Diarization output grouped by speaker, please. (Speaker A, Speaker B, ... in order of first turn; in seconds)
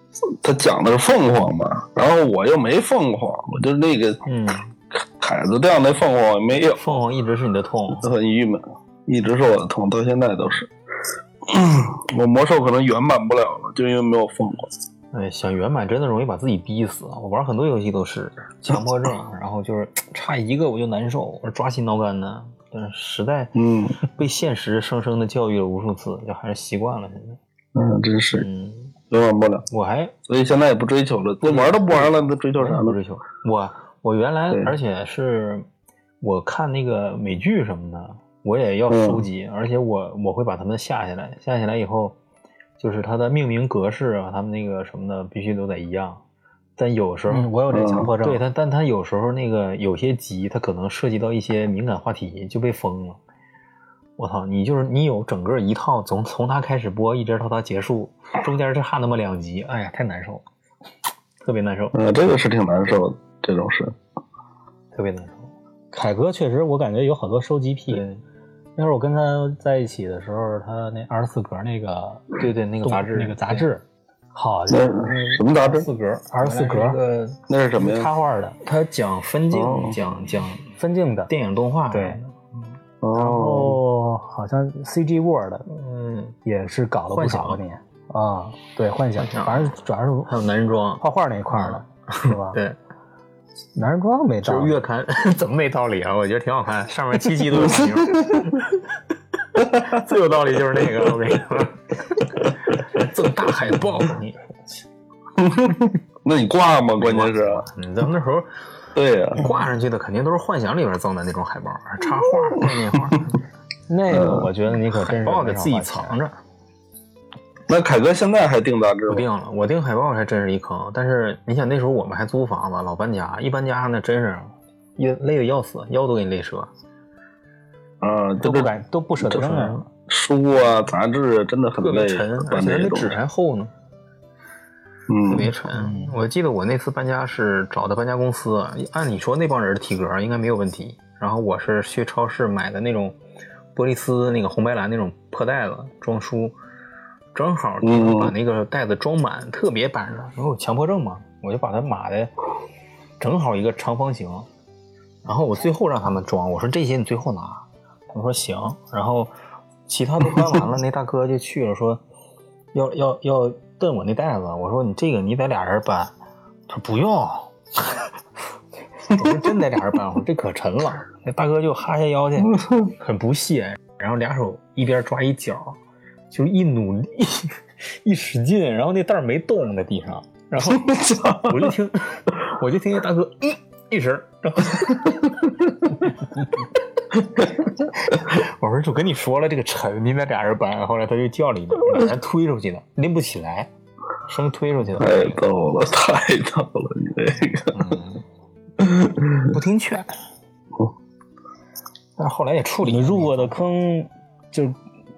Speaker A: 0.4-4.2, 5.2-6.8, 8.0-10.7, 11.5-14.7, 23.6-24.0, 27.8-28.5, 29.1-29.7, 30.3-33.0, 38.9-39.2, 47.7-48.1, 61.9-64.0, 74.7-75.9, 77.5-78.1, 79.5-80.0, 83.0-83.8, 97.8-98.4, 105.4-107.7, 109.0-109.5, 114.1-114.5, 117.7-119.3, 128.0-128.7, 130.1-133.2, 135.1-135.5, 147.8-148.3, 180.9-181.5, 195.0-198.0, 198.8-199.5
Speaker B: 4.2-4.7, 6.5-8.1, 15.1-27.4, 28.3-28.9, 29.7-30.1, 31.4-35.7, 36.2-42.2, 42.8-46.2, 46.8-47.5, 48.2-53.2, 54.2-60.5, 61.4-62.0, 64.9-65.5, 67.9-68.2, 72.4-73.7, 75.6-77.4, 78.6-80.7, 81.3-82.4, 85.7-86.4, 87.1-87.6, 89.2-89.7, 90.3-92.8, 94.4-98.7, 99.5-104.6, 107.0-108.5, 109.4-113.3, 114.9-116.4, 119.1-126.7, 129.3-129.9, 131.8-133.7, 135.3-143.2, 143.7-146.6, 147.3-152.3, 153.2-154.5, 155.2-159.3, 159.9-162.0, 162.7-166.2, 166.7-168.0, 169.1-175.8, 176.3-185.2, 187.9-193.7, 194.2-195.4, 197.7-198.2, 199.5-200.1, 202.2-203.6
Speaker C: 47.3-48.4, 65.9-68.0, 68.8-75.6, 76.3-77.0, 77.8-78.6, 80.8-81.3, 81.9-82.2, 83.1-85.7, 86.5-90.4, 91.0-92.6, 93.8-94.8, 113.9-116.2, 128.4-129.8, 135.8-136.1, 202.8-204.8